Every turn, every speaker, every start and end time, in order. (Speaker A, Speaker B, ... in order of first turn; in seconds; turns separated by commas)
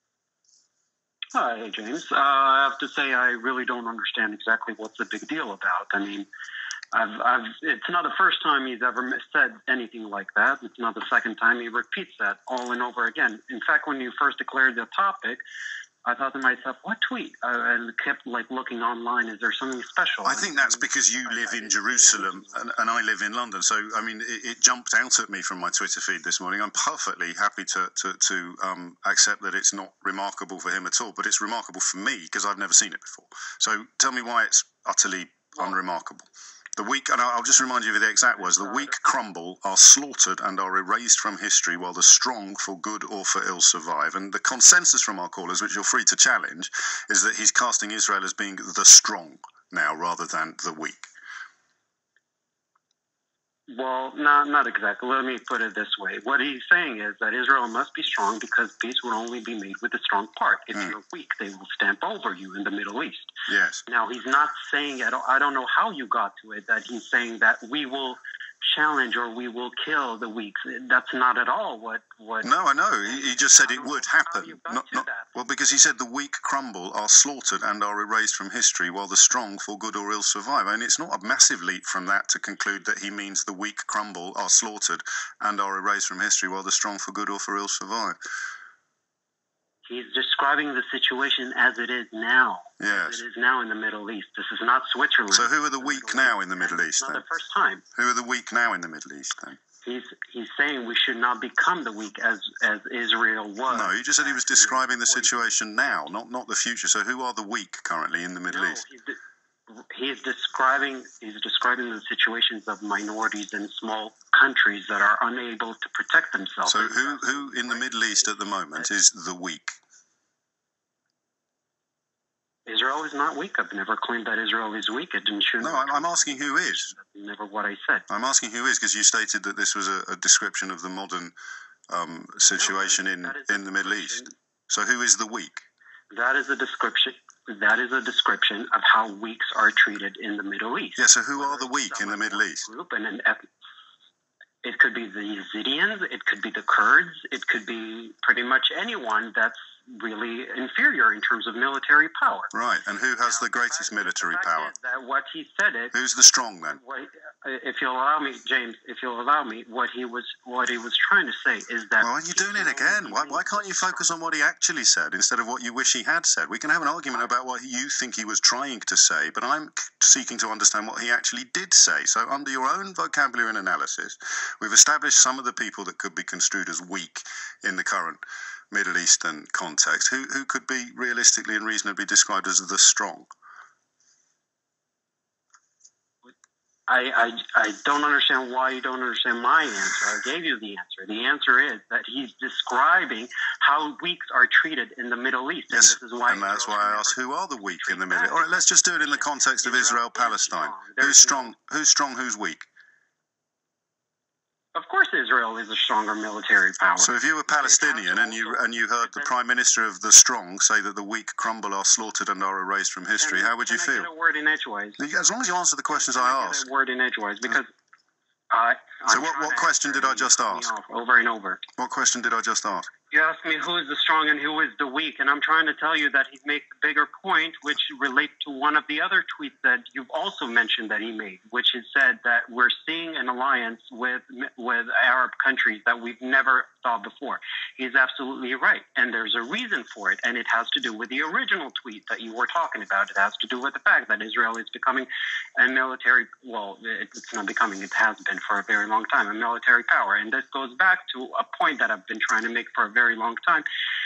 Speaker A: 1.4-6.3, Speaker A: 6.9-15.4, Speaker A: 16.1-22.6, Speaker B: 20.2-51.1, Speaker A: 38.4-38.9, Speaker A: 53.7-63.3, Speaker B: 63.5-63.8, Speaker A: 63.9-72.5, Speaker B: 72.4-88.2, Speaker A: 73.0-75.3, Speaker A: 89.9-97.8, Speaker B: 92.8-93.2, Speaker B: 95.3-97.2, Speaker B: 98.0-99.6, Speaker A: 99.8-106.0, Speaker B: 103.7-108.8, Speaker A: 108.5-109.2, Speaker A: 109.7-118.9, Speaker B: 116.7-119.8, Speaker A: 122.7-128.1, Speaker B: 125.6-126.9, Speaker B: 128.1-131.3, Speaker B: 131.9-135.7, Speaker A: 132.5-134.3, Speaker A: 136.1-143.5, Speaker B: 141.0-142.7, Speaker A: 144.6-152.5, Speaker B: 152.5-154.7, Speaker A: 153.2-155.9, Speaker B: 155.9-156.8, Speaker A: 156.7-164.2, Speaker B: 162.0-178.2, Speaker B: 178.7-183.3, Speaker A: 186.9-201.5, Speaker B: 195.7-202.7, Speaker A: 204.8-209.3, Speaker B: 207.0-214.1, Speaker A: 213.2-215.0, Speaker B: 215.0-216.7, Speaker A: 215.9-217.7, Speaker A: 218.5-221.6, Speaker B: 219.1-220.7, Speaker B: 221.8-222.9, Speaker A: 223.1-253.7